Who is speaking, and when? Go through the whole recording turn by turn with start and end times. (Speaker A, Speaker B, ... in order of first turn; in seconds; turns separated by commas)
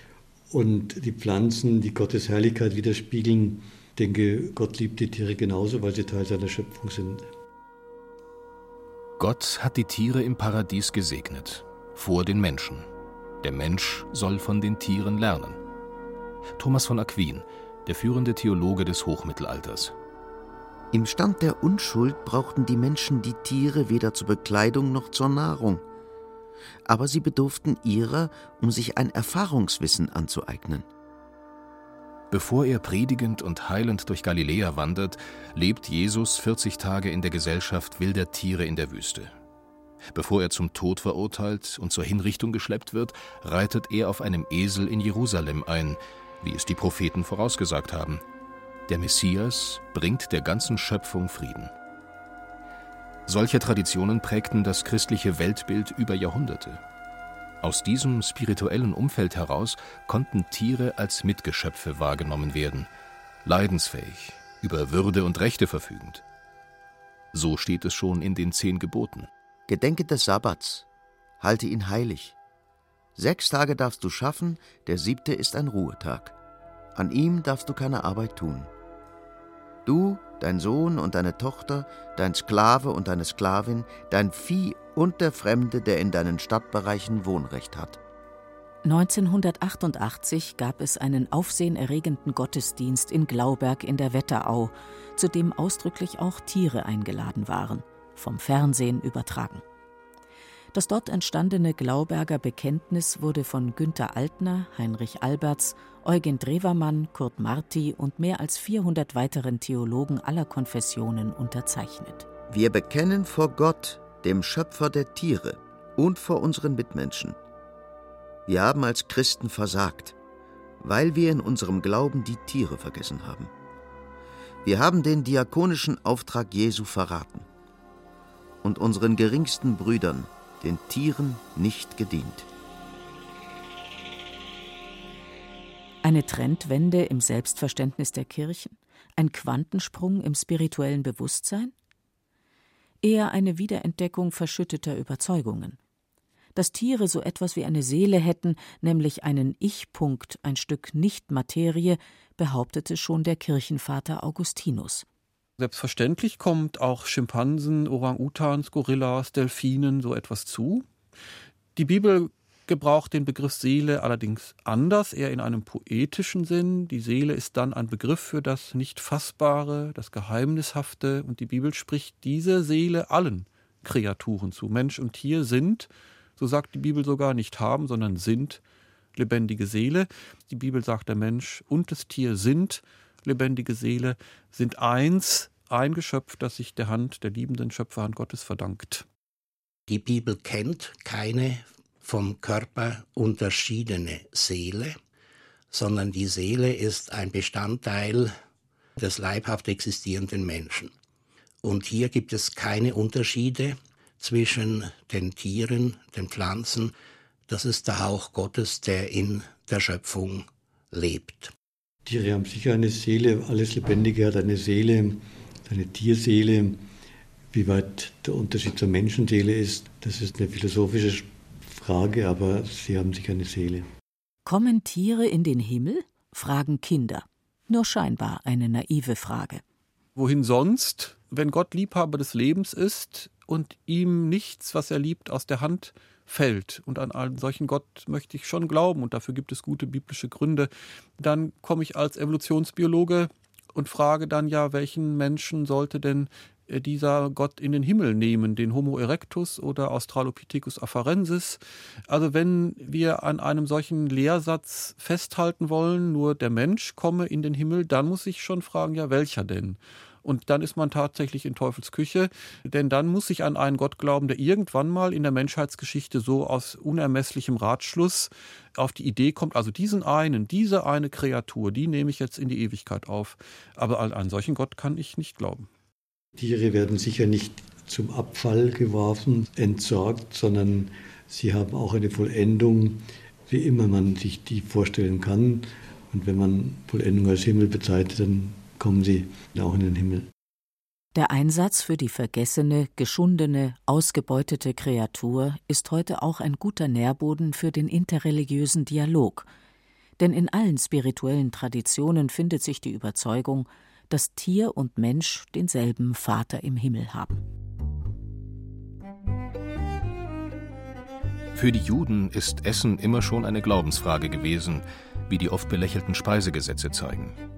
Speaker A: 0.5-7.2, Speaker B: 9.2-12.9, Speaker B: 13.4-15.6, Speaker B: 16.6-19.9, Speaker C: 20.9-25.8, Speaker C: 26.9-30.9, Speaker B: 32.3-39.3, Speaker B: 40.1-48.2, Speaker B: 48.9-51.7, Speaker B: 53.2-56.8, Speaker B: 57.6-62.9, Speaker B: 63.4-66.2, Speaker B: 67.3-69.3, Speaker C: 69.7-70.8, Speaker C: 71.4-72.3, Speaker C: 73.2-76.3, Speaker C: 76.9-78.7, Speaker C: 79.8-88.0, Speaker D: 88.8-99.6, Speaker D: 100.7-112.3, Speaker C: 112.5-117.4, Speaker C: 118.5-120.2, Speaker C: 120.8-123.5, Speaker C: 124.6-127.5, Speaker C: 128.6-132.5, Speaker D: 136.0-141.7, Speaker D: 143.0-145.8, Speaker D: 146.5-155.0, Speaker E: 155.6-160.8, Speaker E: 161.8-178.6, Speaker E: 179.2-189.0, Speaker F: 189.9-194.9, Speaker F: 195.7-198.3, Speaker F: 199.0-200.9, Speaker F: 201.6-206.9, Speaker F: 207.5-211.5, Speaker A: 212.1-216.8, Speaker A: 217.5-223.9, Speaker D: 224.4-229.6, Speaker E: 230.2-275.7, Speaker A: 276.4-290.3, Speaker D: 291.1-299.5, Speaker D: 300.2-307.4, Speaker B: 311.5-317.4